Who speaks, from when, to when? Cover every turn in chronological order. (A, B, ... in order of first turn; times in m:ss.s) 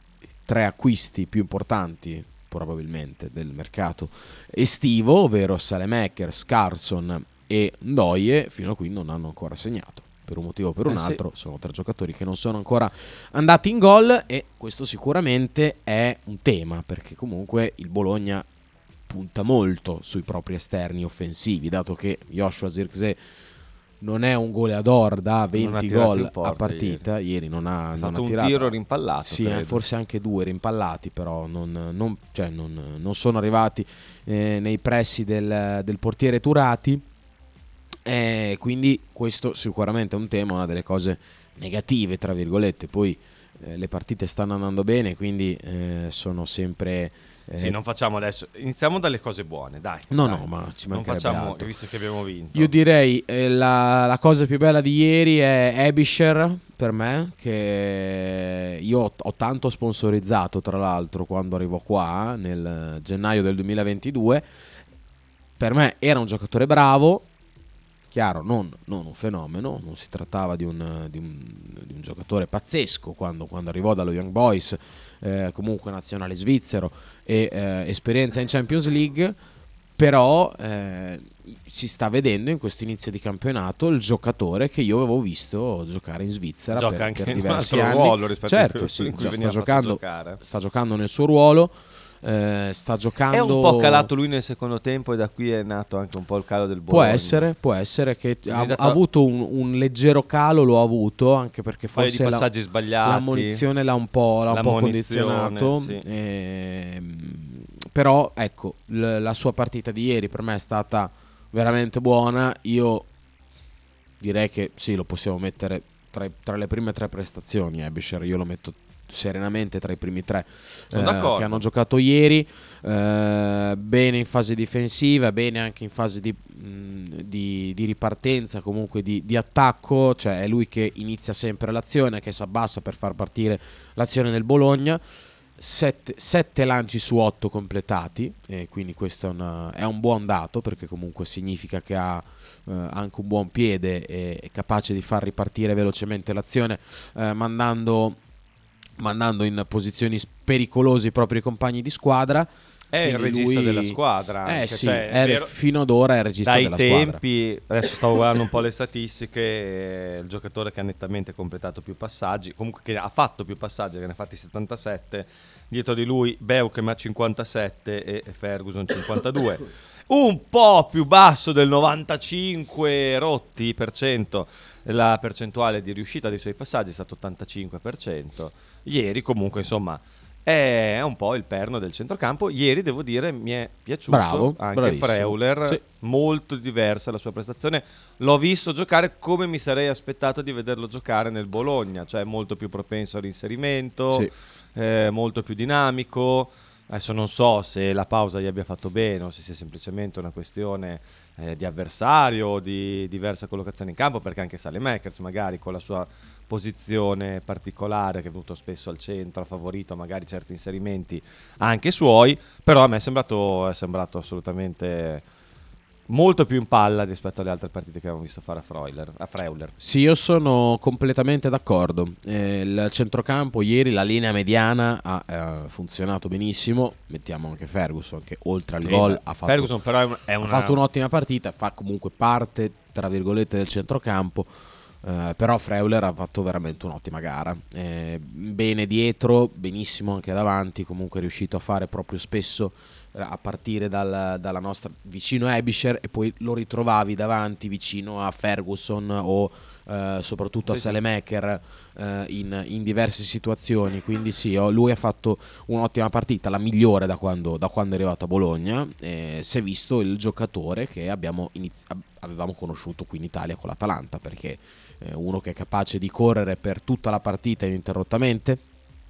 0:00.5-0:18.5 A
0:10.9-0:11.2 B
0:19.1-0:23.2 A
0:24.0-0:37.0 A
0:25.5-0:27.0 B
0:28.0-0:29.8 B
0:38.0-0:47.8 A
0:47.6-0:52.7 B
0:50.1-0:51.8 A
0:52.5-1:04.5 A
1:05.6-1:07.3 A
1:08.1-1:19.4 A
1:20.0-1:34.1 A
1:26.7-1:30.4 B
1:33.3-1:37.5 B
1:36.9-1:42.5 A
1:38.5-1:39.0 B
1:41.9-1:43.6 B
1:43.0-1:53.1 A
1:44.5-1:46.0 B
1:54.2-2:15.0 A
2:00.9-2:01.7 B
2:15.6-2:28.2 A
2:29.0-2:32.5 A
2:32.9-2:35.5 B
2:33.0-2:37.2 A
2:36.4-3:35.2 B
3:04.1-3:05.8 A
3:36.1-3:39.8 B
3:39.8-3:49.8 A
3:48.8-3:50.8 B
3:50.4-4:28.6 A
4:10.7-4:11.0 B